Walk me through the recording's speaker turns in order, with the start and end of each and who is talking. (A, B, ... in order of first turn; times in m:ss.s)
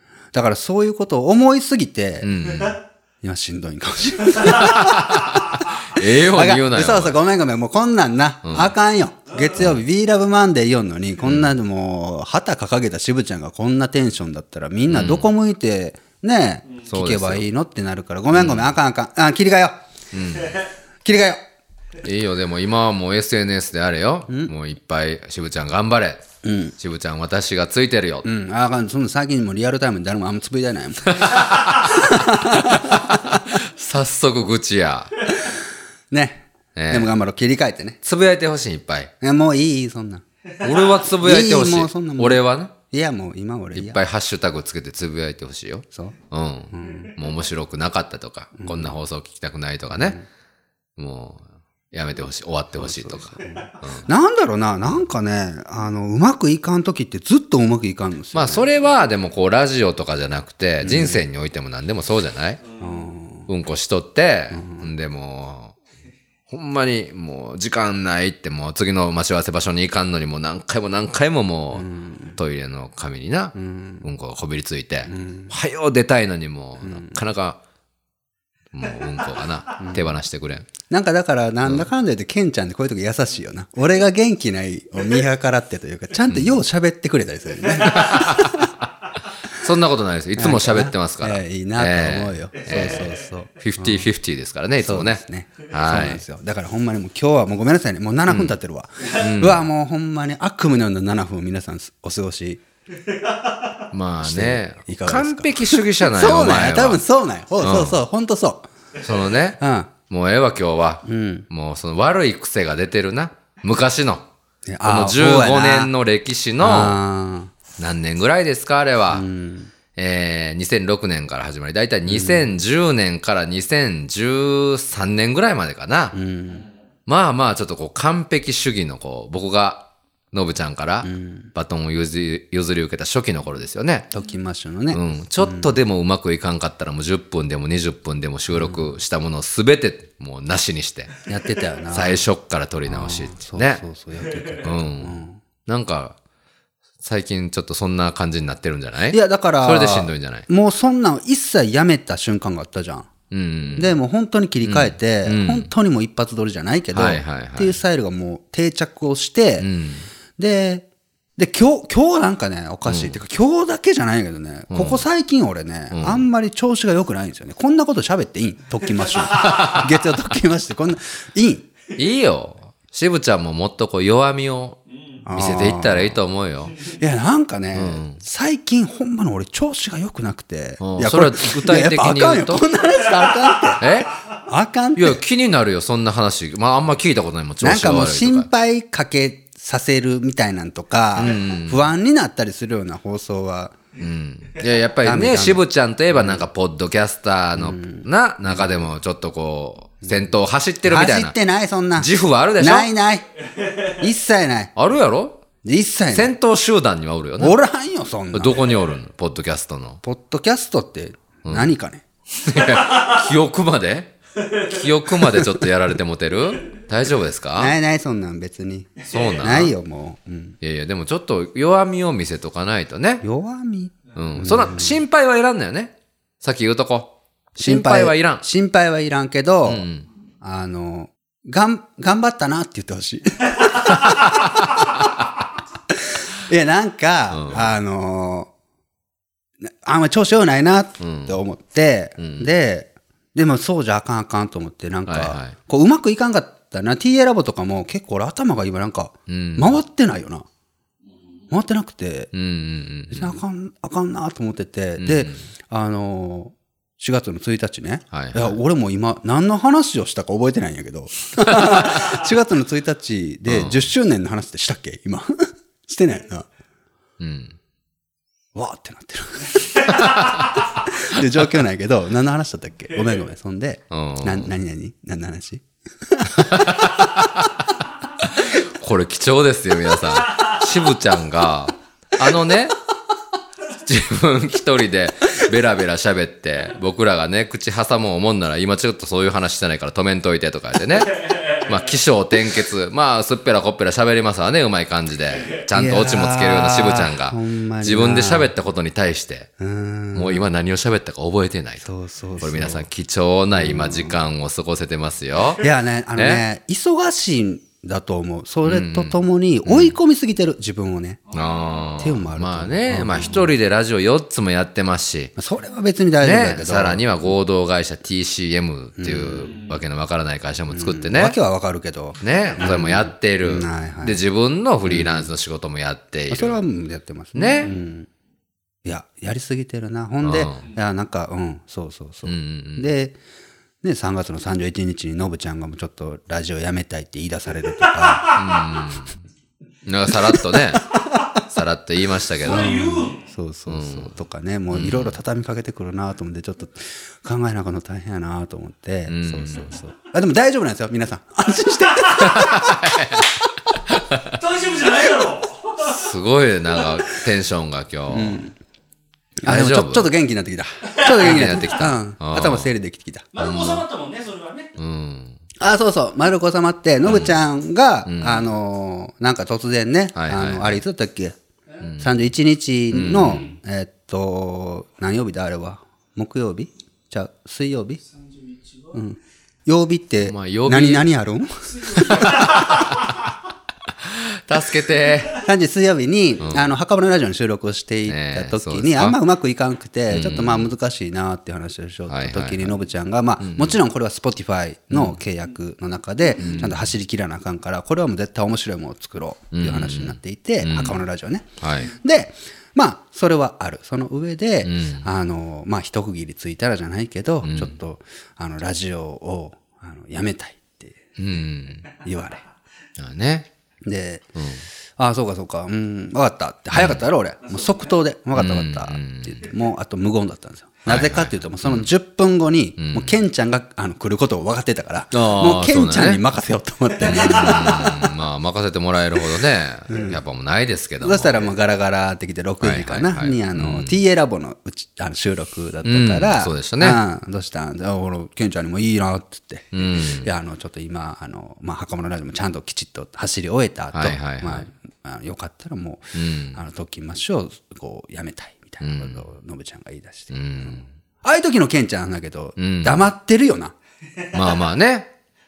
0:00.3-0:19.8 A
0:02.2-0:02.8 B
0:04.4-0:07.2 B
0:08.4-0:08.8 B
0:11.2-0:11.5 B
0:14.9-0:15.3 B
0:16.9-0:17.5 B
0:18.3-0:18.7 B
0:20.1-0:20.6 B
0:21.0-0:21.4 A
0:22.0-0:26.2 B
0:26.4-0:26.7 A
0:26.8-0:28.3 B
0:28.2-0:33.5 A
0:31.2-0:31.7 B
0:32.7-0:35.1 B
0:36.1-0:38.0 A
0:36.8-0:37.1 B
0:38.0-0:39.1 B
0:39.2-0:40.2 A
0:40.6-0:42.7 B
0:41.1-0:44.0 A
0:43.8-0:50.2 B
0:46.7-0:47.1 A
0:48.6-0:48.9 A
0:49.9-0:50.2 A
0:51.0-0:54.1 B
0:52.8-0:58.7 A
0:58.3-1:02.6 B
1:00.8-1:01.2 A
1:02.6-1:03.1 C
1:02.8-1:03.5 A
1:03.5-1:05.8 B
1:04.5-1:04.9 A
1:06.5-1:17.6 B
1:11.8-1:12.4 A
1:13.6-1:14.0 A
1:15.1-1:15.5 A
1:16.8-1:17.2 A
1:18.7-1:20.7 B
1:19.8-1:20.2 A
1:20.9-1:28.7 A
1:26.3-1:26.6 B
1:27.8-1:28.7 B
1:29.5-1:33.1 B
1:30.4-1:34.1 A
1:32.6-1:33.2 C
1:33.6-1:36.2 B
1:34.8-1:42.6 A
1:38.3-1:39.6 B
1:43.9-1:47.0 B
1:44.2-1:48.7 A
1:47.6-1:48.0 B
1:49.0-1:54.3 B
1:49.6-1:49.9 A
1:51.0-1:51.5 A
1:54.7-1:55.9 A
1:54.8-1:57.0 B
1:56.6-1:57.5 A
1:57.8-1:59.2 B
1:59.1-1:59.7 A
2:00.0-2:06.2 B
2:02.1-2:02.5 A
2:06.1-2:06.6 A
2:07.1-2:14.1 B
2:11.0-2:11.5 A
2:14.1-2:15.8 A
2:14.9-2:21.1 B
2:18.6-2:18.8 A
2:21.3-2:22.2 A
2:21.9-2:23.8 B
2:22.9-2:25.4 A
2:24.6-2:26.2 B
2:27.0-2:30.5 B
2:29.1-2:33.1 A
2:33.3-2:34.0 B
2:33.8-2:39.7 A
2:34.6-2:35.7 B
2:36.9-2:37.8 B
2:39.6-2:40.1 B
2:40.4-2:40.9 A
2:41.4-2:51.7 A
2:42.9-2:43.2 B
2:44.7-2:45.0 B
2:45.9-2:46.3 B
2:49.3-2:50.0 B
2:52.0-2:54.8 B
2:54.9-2:55.3 C
2:55.2-2:56.2 A
2:55.3-2:56.8 B
2:56.9-3:05.2 A
2:57.7-2:58.2 B
3:00.8-3:02.6 B
3:03.2-3:03.7 C
3:03.8-3:04.2 B
3:05.0-3:08.5 B
3:07.6-3:13.8 A
3:11.2-3:11.9 B
3:14.0-3:21.4 B
3:15.0-3:16.4 A
3:17.6-3:18.8 A
3:20.0-3:20.3 A
3:20.8-3:23.3 A
3:22.0-3:22.9 B
3:23.8-3:24.7 A
3:24.8-3:25.4 B
3:25.6-3:26.4 A
3:26.1-3:27.6 B
3:27.4-3:28.6 A
3:28.3-3:30.0 B
3:30.0-3:32.0 A
3:32.3-3:37.8 B
3:37.6-3:40.6 A
3:39.1-3:39.7 B
3:40.6-3:43.2 B
3:43.2-3:45.0 A
3:44.2-3:48.4 B
3:47.6-3:49.9 A
3:49.7-3:50.1 B
3:50.4-3:55.0 A
3:54.1-3:54.8 B
3:55.9-3:58.5 A
3:57.3-3:57.7 B
3:59.6-4:10.4 A
4:01.0-4:01.4 B
4:02.2-4:02.5 B
4:05.1-4:05.6 B
4:09.3-4:09.8 B
4:11.1-4:11.5 C
4:11.5-4:12.3 A
4:12.3-4:13.4 B
4:13.1-4:26.5 A
4:15.0-4:15.4 B
4:18.1-4:18.6 B
4:21.5-4:22.0 B
4:23.5-4:23.8 B
4:27.2-4:27.6 B
4:28.6-4:37.0 A
4:33.9-4:34.5 B
4:36.4-4:37.5 B
4:38.2-4:42.8 B
4:43.8-4:59.5 B
4:51.3-4:51.6 C
4:55.7-4:58.5 A
4:59.6-5:00.4 A
5:00.1-5:01.9 B
5:01.8-5:02.9 A
5:02.4-5:05.6 B
5:03.5-5:04.2 A
5:05.6-5:11.2 A
5:06.2-5:06.4 B
5:08.6-5:10.0 B
5:11.3-5:12.0 C
5:11.3-5:15.3 B
5:12.0-5:13.5 A
5:15.4-5:17.1 A
5:16.2-5:21.4 B
5:19.0-5:19.5 A
5:19.4-5:19.8 C
5:20.7-5:24.2 A
5:22.2-5:26.6 B
5:24.8-5:25.3 A
5:26.3-5:28.1 A
5:27.4-5:27.7 B
5:28.8-5:33.2 A
5:30.2-5:30.6 B
5:32.3-5:32.9 B
5:33.8-5:38.7 A
5:38.0-5:38.5 C
5:38.3-5:39.2 B
5:39.9-5:43.0 B
5:40.1-5:41.3 A
5:42.4-5:43.3 C
5:42.5-5:52.9 A
5:43.7-5:44.1 B
5:44.7-5:45.1 B
5:49.1-5:49.8 B
5:52.1-5:54.4 B
5:54.3-5:56.0 C
5:55.8-5:58.4 B
5:58.1-5:58.5 A
5:59.4-6:03.3 A
5:59.5-6:00.1 B
6:01.1-6:02.7 B
6:03.3-6:04.7 C
6:03.4-6:03.9 B
6:04.8-6:05.4 B
6:05.6-6:11.4 A
6:07.1-6:07.4 B
6:08.1-6:08.5 B
6:10.2-6:10.8 B
6:11.8-6:12.2 B
6:12.0-6:18.0 A
6:12.9-6:13.5 B
6:18.2-6:19.0 C
6:18.9-6:23.1 A
6:20.2-6:21.1 B
6:22.0-6:22.7 C
6:22.3-6:23.1 B
6:23.9-6:25.4 B
6:25.4-6:51.0 A
6:26.4-6:26.7 B
6:28.1-6:29.2 B
6:30.1-6:30.7 B
6:32.1-6:32.8 B
6:33.4-6:33.8 B
6:34.9-6:35.2 B
6:36.4-6:36.9 B
6:39.5-6:41.0 B
6:41.6-6:41.9 B
6:44.6-6:45.1 B
6:47.4-6:47.8 B
6:51.2-6:51.9 B
6:52.0-6:52.4 A
6:53.0-6:53.5 B
6:53.8-6:54.2 A
6:54.4-6:54.6 B
6:55.0-7:08.1 A
6:56.7-6:57.0 B
6:57.4-6:57.9 C
6:58.4-6:59.5 B
7:00.9-7:01.9 B
7:02.8-7:03.2 B
7:05.1-7:06.2 B
7:07.0-7:11.5 B
7:07.4-7:07.7 C
7:09.9-7:10.2 A
7:11.0-7:33.7 A
7:12.6-7:14.0 B
7:15.8-7:17.0 B
7:19.7-7:20.3 B
7:23.9-7:24.7 B
7:26.1-7:26.6 B
7:28.8-7:29.2 B
7:30.3-7:30.9 B
7:32.6-7:33.1 B
7:34.3-7:35.1 B